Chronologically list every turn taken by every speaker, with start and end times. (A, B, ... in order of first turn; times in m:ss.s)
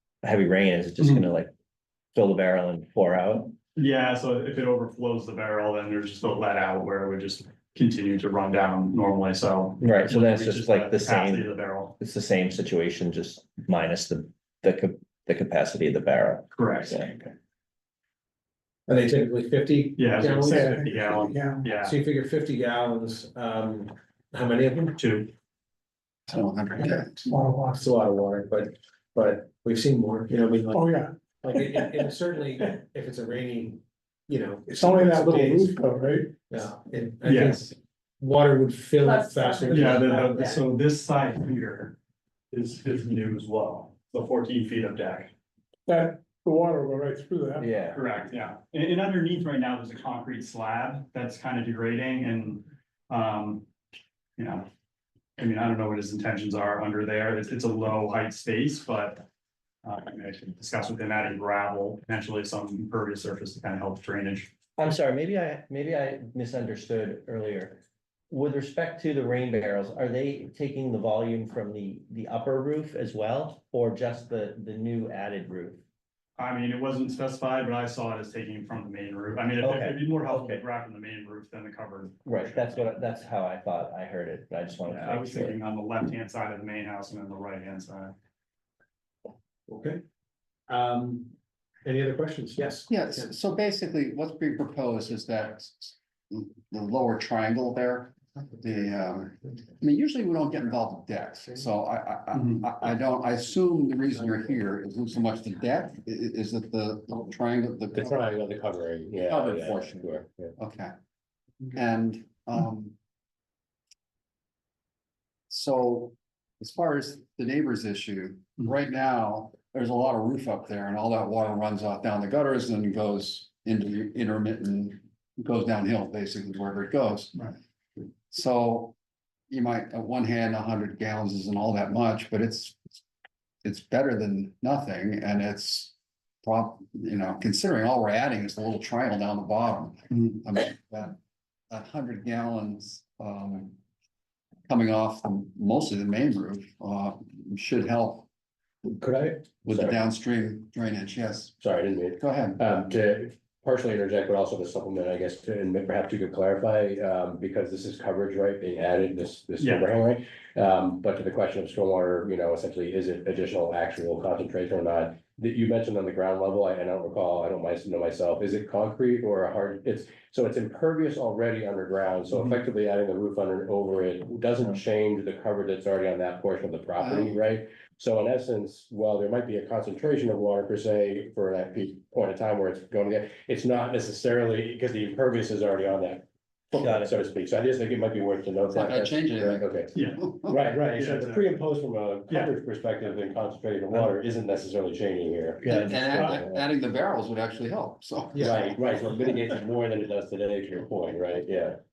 0:00.2-0:01.5 A
0:02.2-0:03.5 A
0:03.8-0:12.0 B
0:09.8-0:17.1 A
0:16.6-0:17.3 B
0:18.9-0:25.0 C
0:20.0-0:22.0 B
0:20.5-0:21.8 D
0:25.0-0:25.3 B
0:26.3-0:27.1 E
0:27.1-0:27.9 D
0:27.8-0:35.8 C
0:30.7-0:31.9 D
0:34.7-0:36.4 D
0:36.5-0:40.6 C
0:37.2-0:37.7 B
0:39.7-0:41.9 B
0:42.5-0:45.3 B
0:45.9-0:47.9 D
0:47.6-0:48.0 A
0:47.9-0:53.7 B
0:54.4-0:54.7 B
0:55.4-0:59.2 B
0:59.8-1:04.5 B
1:04.8-1:07.8 A
1:08.3-1:15.8 A
1:16.4-1:22.9 B
1:19.6-1:20.6 A
1:22.2-1:25.6 A
1:24.9-1:28.1 B
1:29.7-1:30.0 C
1:30.7-1:33.3 C
1:32.9-1:48.2 E
1:48.0-1:50.5 F
1:49.3-1:50.9 E
1:51.7-1:53.0 E
1:55.5-2:07.5 E
2:08.3-2:09.0 E
2:09.5-2:12.8 E
2:13.6-2:21.2 E
2:21.7-2:23.8 E
2:24.7-2:28.3 E
2:28.9-2:30.0 F
2:29.6-2:31.6 E
2:31.6-3:09.9 F
2:32.2-2:32.6 E
2:39.6-2:39.9 B
3:06.7-3:07.2 A
3:08.7-3:10.6 E
3:10.0-3:11.6 B
3:10.5-3:16.6 F
3:15.6-3:18.7 E
3:15.6-3:16.2 A
3:18.4-3:18.7 C
3:18.4-3:21.8 F